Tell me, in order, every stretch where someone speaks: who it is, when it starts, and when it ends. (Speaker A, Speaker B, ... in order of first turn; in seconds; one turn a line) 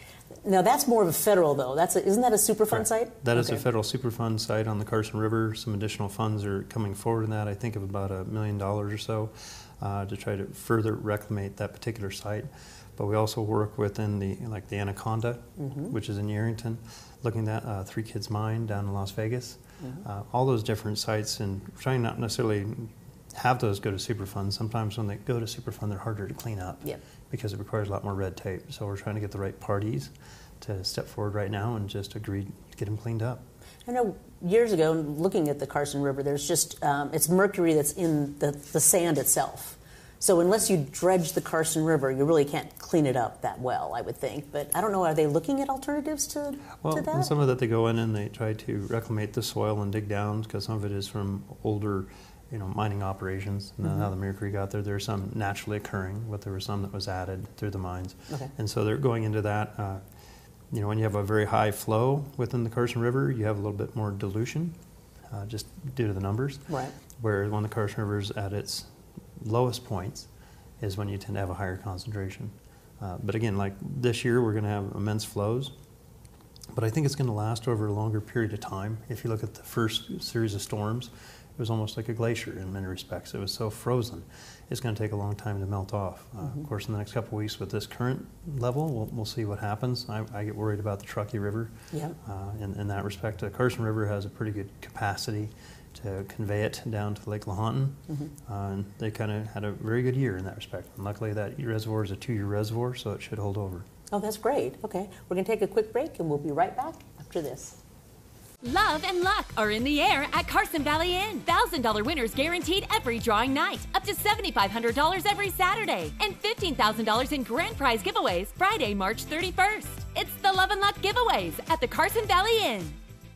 Speaker A: 0.4-3.6
Speaker B: 2.7-33.5
Speaker A: 15.6-15.9
Speaker A: 33.9-47.3
Speaker B: 46.8-60.0
Speaker B: 60.7-64.8
Speaker B: 65.3-70.3
Speaker A: 66.7-66.9
Speaker B: 70.8-75.7
Speaker B: 76.7-103.9
Speaker A: 104.1-107.8
Speaker C: 108.6-123.0